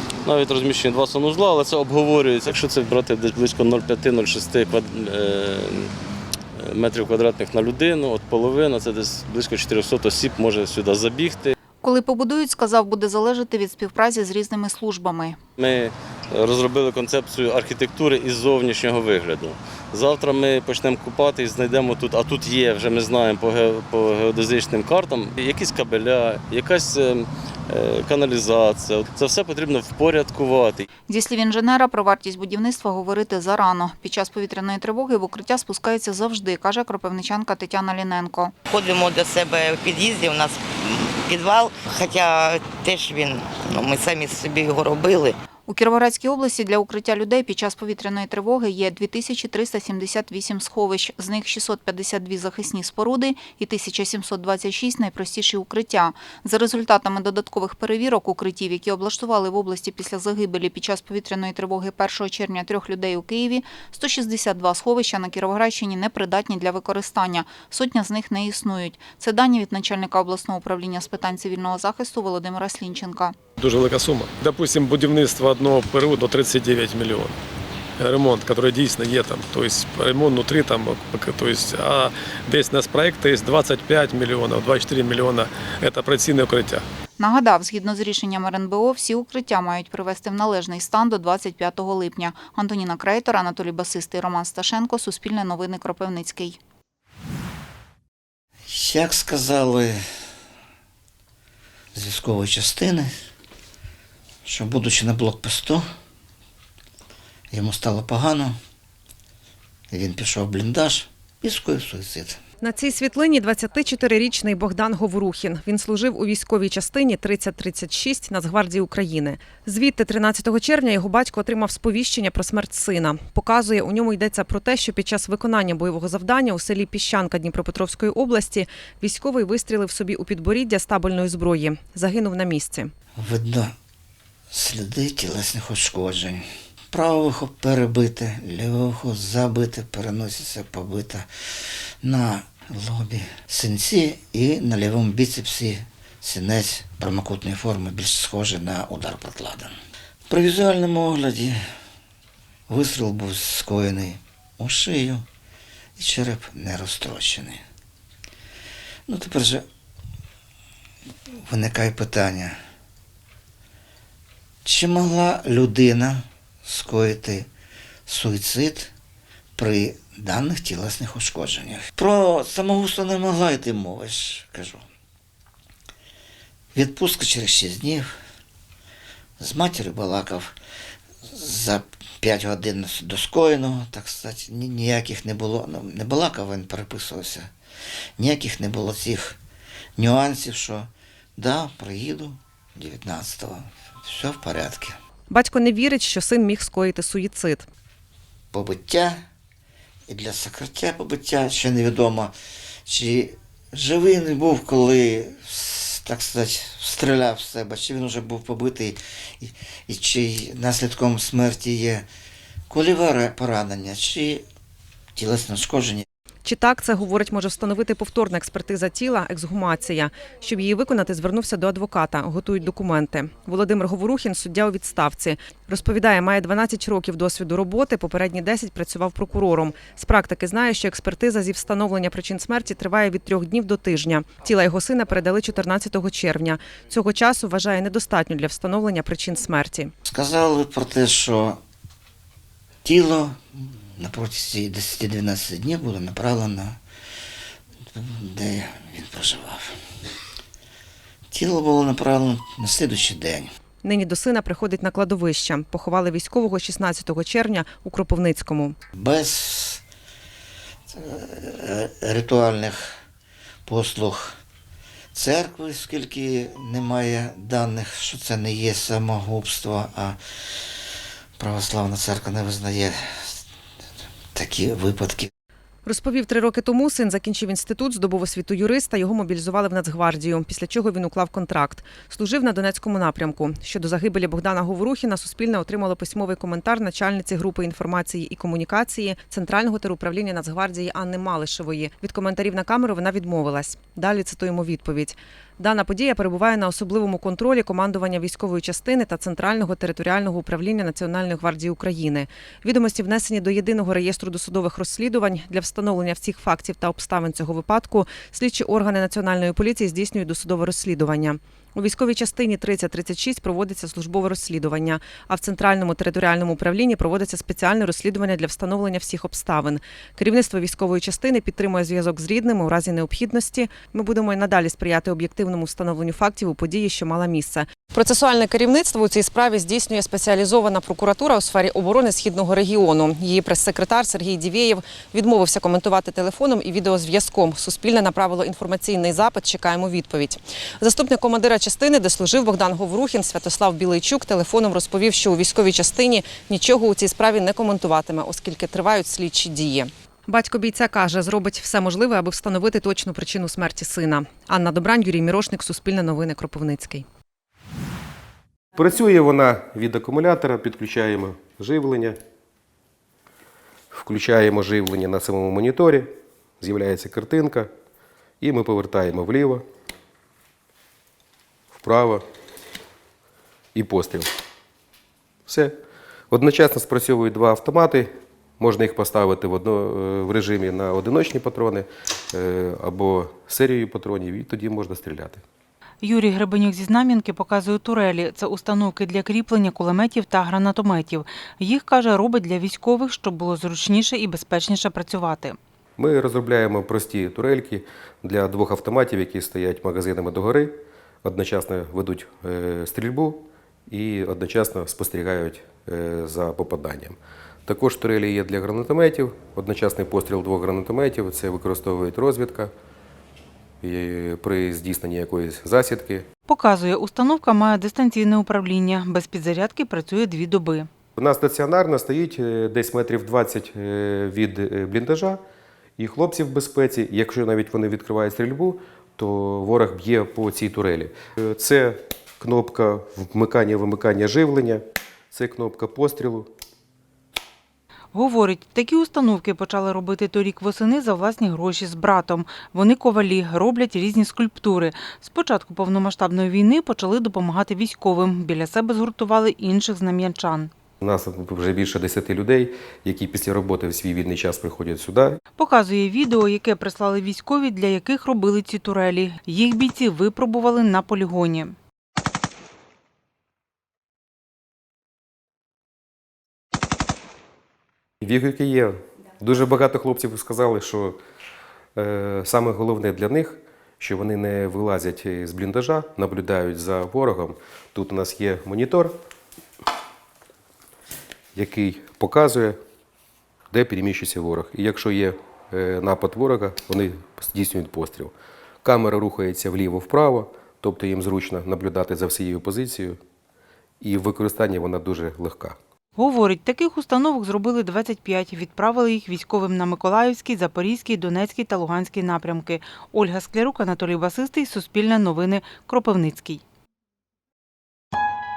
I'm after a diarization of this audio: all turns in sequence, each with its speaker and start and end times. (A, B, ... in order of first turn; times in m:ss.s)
0:00.2-0:05.9 A
0:06.6-0:11.5 A
0:11.8-0:15.4 B
0:15.6-0:30.8 A
0:31.1-0:38.5 B
0:38.7-0:45.4 C
0:45.7-1:13.4 B
1:13.6-1:17.4 D
1:18.0-1:26.8 D
1:27.2-1:36.6 B
1:38.7-1:40.0 E
1:41.9-1:43.1 E
1:44.4-1:45.8 E
1:47.5-1:48.6 E
1:49.9-1:52.4 E
1:52.6-2:12.9 F
2:13.2-2:13.7 E
2:14.5-2:21.3 E
2:22.0-2:29.8 E
2:30.3-2:31.6 E
2:32.7-2:35.2 E
2:36.0-2:37.6 E
2:39.1-2:39.6 E
2:41.4-2:42.6 E
2:44.6-2:47.5 E
2:48.1-2:48.9 E
2:49.6-2:54.8 E
2:56.7-2:58.1 E
2:59.4-3:00.5 E
3:01.2-3:07.5 E
3:08.2-3:09.4 E
3:10.0-3:15.0 E
3:15.3-3:17.6 F
3:18.5-3:19.2 E
3:20.1-3:22.3 E
3:22.8-3:32.0 E
3:32.7-3:34.4 E
3:35.2-3:36.0 E
3:36.4-3:59.9 F
4:00.0-4:01.6 E
4:02.8-4:06.8 E
4:07.9-4:09.8 E
4:11.3-4:13.5 E
4:13.8-4:18.8 F
4:19.0-4:19.8 E
4:20.9-4:22.9 E
4:23.6-4:24.4 E
4:25.1-4:30.2 E
4:31.4-4:33.4 E
4:34.3-4:35.3 E
4:35.8-5:57.0 F
5:58.7-6:02.2 G
6:03.9-6:06.1 G
6:06.6-6:07.7 G
6:08.4-6:09.6 G
6:11.8-6:12.2 G
6:13.7-6:14.3 G
6:15.5-6:15.7 G
6:16.3-6:18.0 G
6:18.6-6:25.4 G
6:26.0-6:35.6 H
6:36.0-6:40.7 G
6:41.2-6:47.2 G
6:47.7-6:52.7 G
6:53.8-6:56.2 G
6:56.5-7:00.9 H
7:01.2-7:05.4 G
7:06.0-7:14.8 G
7:15.3-7:16.5 G
7:18.1-7:30.7 H
7:31.0-7:35.4 G
7:35.6-7:41.8 H
7:48.2-7:51.2 G
7:52.0-7:59.1 G
8:01.5-8:02.8 G
8:03.7-8:08.3 G
8:08.8-8:13.2 G
8:14.0-8:15.8 G
8:16.2-8:26.6 H